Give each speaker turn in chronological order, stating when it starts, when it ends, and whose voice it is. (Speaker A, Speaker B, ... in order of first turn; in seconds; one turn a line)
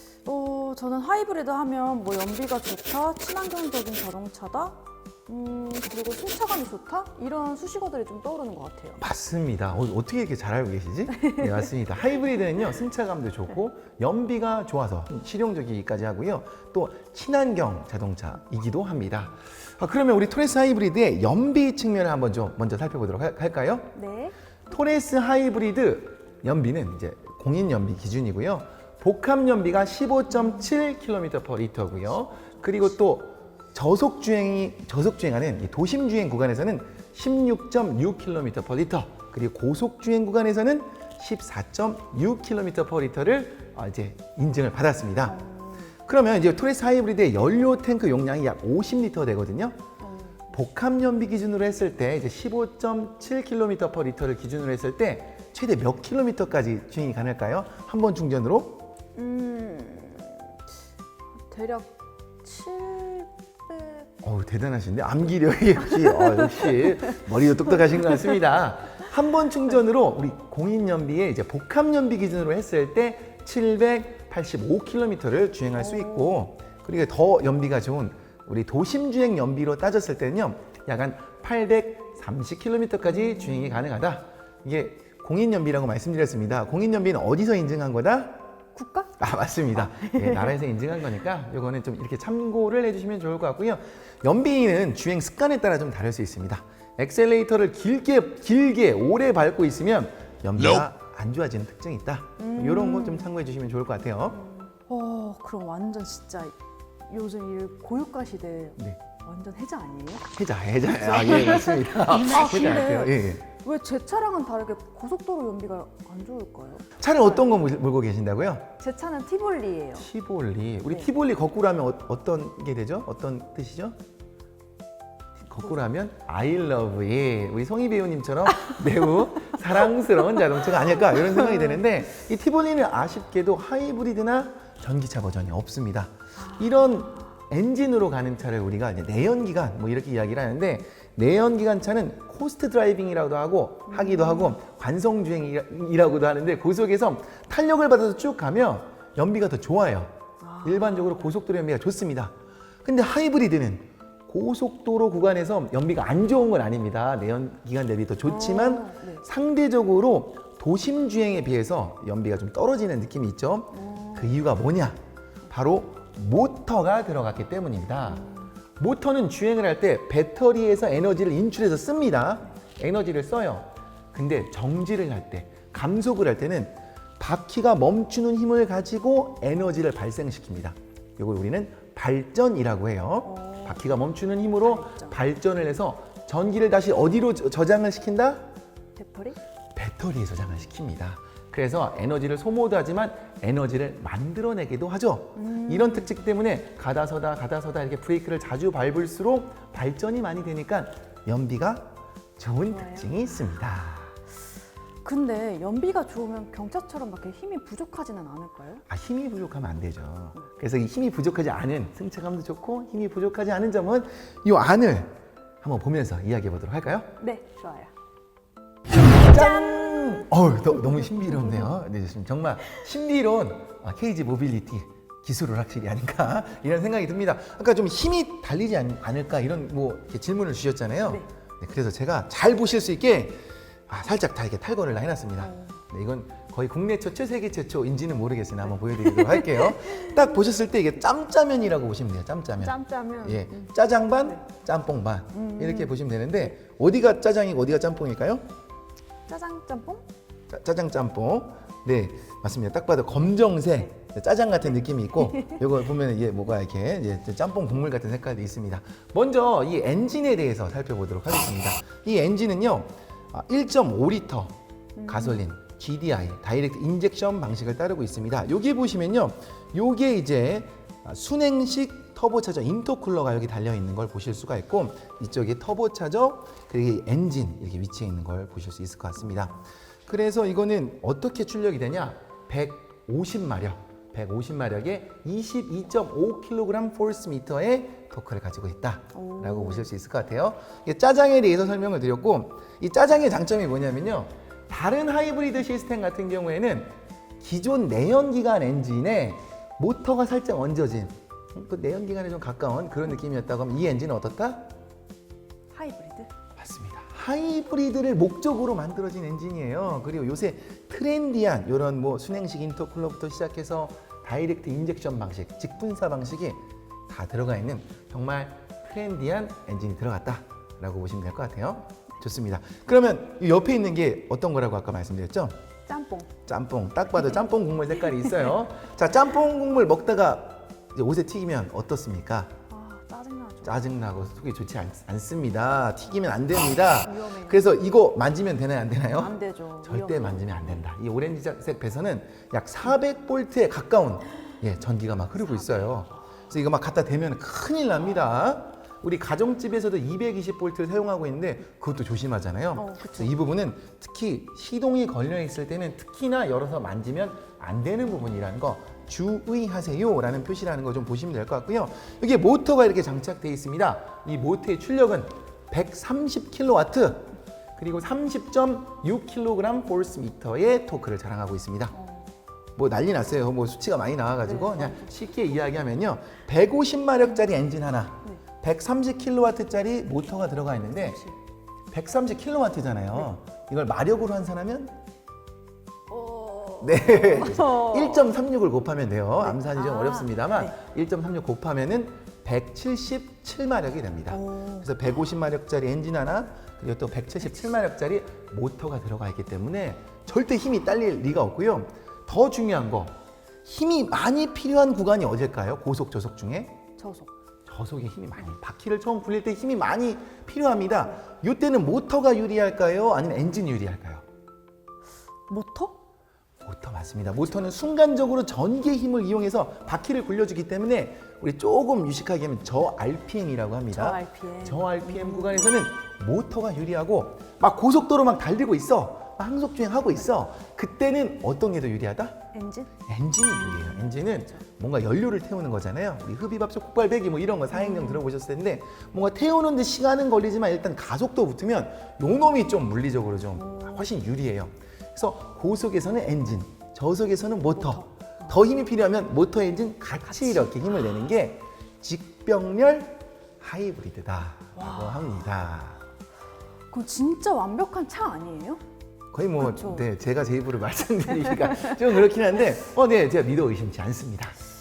Speaker A: 0.2-9.0
Speaker B: 9.0-23.9
Speaker A: 11.2-11.5
Speaker A: 23.9-24.4
Speaker B: 24.7-45.4
Speaker A: 45.3-45.9
Speaker B: 46.1-49.8
Speaker A: 50.0-50.5
Speaker B: 50.5-58.8
Speaker A: 59.2-60.5
Speaker A: 61.5-64.1
Speaker B: 64.2-88.4
Speaker A: 65.9-66.8
Speaker A: 75.9-76.4
Speaker A: 83.5-83.7
Speaker A: 88.8-89.2
Speaker B: 89.2-104.4
Speaker A: 89.8-90.6
Speaker A: 102.4-103.3
Speaker A: 104.3-106.5
Speaker A: 107.1-110.3
Speaker B: 110.3-113.5
Speaker A: 110.9-117.5
Speaker B: 117.0-118.7
Speaker A: 118.8-120.1
Speaker B: 120.0-124.0
Speaker B: 125.5-165.0
Speaker A: 136.4-136.9
Speaker A: 143.9-144.6
Speaker A: 150.4-151.2
Speaker A: 158.2-159.2
Speaker A: 163.7-164.3
Speaker B: 165.5-168.2
Speaker A: 168.0-168.5
Speaker B: 168.8-188.4
Speaker A: 183.2-183.8
Speaker A: 184.6-185.2
Speaker A: 189.0-189.4
Speaker B: 189.8-204.2
Speaker A: 195.3-196.1
Speaker A: 202.7-203.2
Speaker A: 205.0-208.8
Speaker B: 208.9-215.1
Speaker B: 215.6-217.1
Speaker A: 217.2-217.9
Speaker B: 219.0-248.4
Speaker A: 219.3-221.7
Speaker A: 235.4-235.8
Speaker A: 238.9-240.2
Speaker A: 242.6-243.7
Speaker A: 245.3-245.9
Speaker A: 249.3-250.1
Speaker B: 250.5-264.5
Speaker A: 265.0-265.4
Speaker B: 265.1-304.7
Speaker A: 289.1-289.9
Speaker A: 305.7-306.3
Speaker B: 306.6-325.5
Speaker A: 325.9-326.4
Speaker B: 326.5-332.5
Speaker A: 332.7-333.8
Speaker B: 333.6-371.9
Speaker A: 337.0-337.7
Speaker A: 339.2-340.8
Speaker A: 345.4-346.1
Speaker A: 352.7-353.4
Speaker A: 371.9-372.3
Speaker B: 372.8-381.2
Speaker A: 374.4-375.1
Speaker A: 381.0-381.3
Speaker B: 381.9-385.0
Speaker A: 386.1-388.3
Speaker B: 386.8-406.8
Speaker A: 389.4-390.7
Speaker A: 394.3-394.9
Speaker A: 407.0-407.3
Speaker B: 407.7-414.2
Speaker A: 415.5-416.0
Speaker B: 416.6-432.4
Speaker A: 423.9-425.7
Speaker A: 432.5-432.9
Speaker B: 433.1-456.0
Speaker A: 433.5-434.6
Speaker A: 437.7-438.2
Speaker A: 443.6-444.1
Speaker A: 447.8-448.1
Speaker A: 450.3-450.7
Speaker A: 454.8-455.3
Speaker A: 456.9-458.8
Speaker B: 459.3-464.6
Speaker A: 459.6-460.1
Speaker A: 461.4-462.0